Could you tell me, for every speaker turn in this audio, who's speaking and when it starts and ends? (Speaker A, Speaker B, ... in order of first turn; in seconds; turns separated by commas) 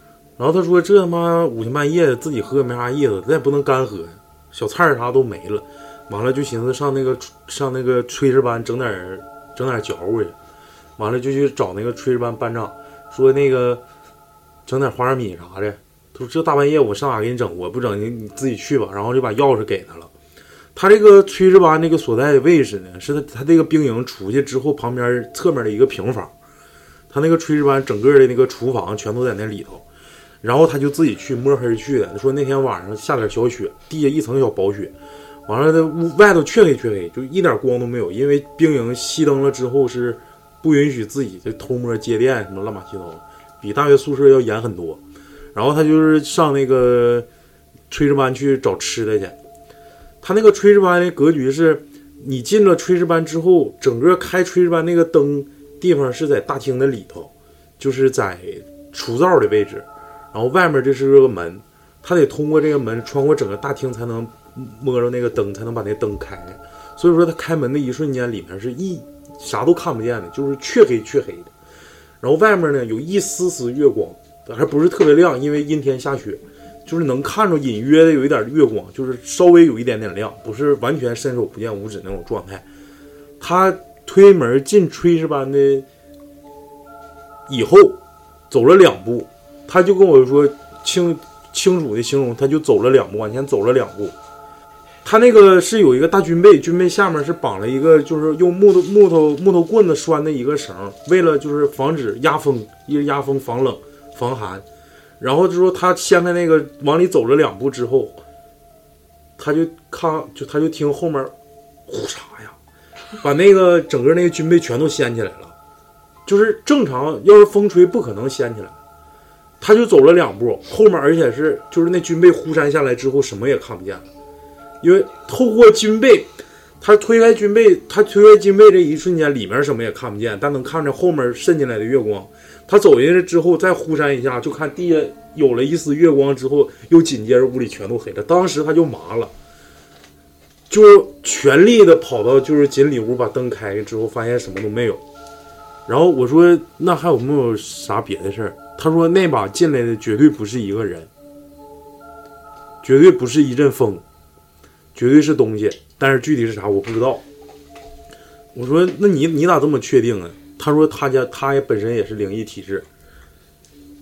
Speaker A: 0.4-10.3, Speaker A: 11.0-13.8, Speaker A: 14.7-20.1, Speaker A: 20.7-26.3, Speaker A: 27.1-29.8, Speaker A: 30.4-34.9, Speaker A: 35.5-45.0, Speaker A: 45.5-47.3, Speaker A: 47.9-49.4, Speaker A: 50.2-71.5, Speaker A: 72.2-82.6, Speaker A: 83.4-85.8, Speaker A: 87.5-88.0, Speaker A: 88.5-94.1, Speaker A: 95.0-104.6, Speaker A: 105.2-108.2, Speaker A: 109.4-111.3, Speaker A: 111.9-112.5, Speaker A: 113.2-115.5, Speaker A: 116.2-118.7, Speaker A: 119.6-124.0, Speaker A: 124.8-139.3, Speaker A: 140.7-145.0, Speaker A: 145.9-151.1, Speaker A: 152.8-154.0, Speaker A: 154.9-157.2, Speaker A: 158.5-162.8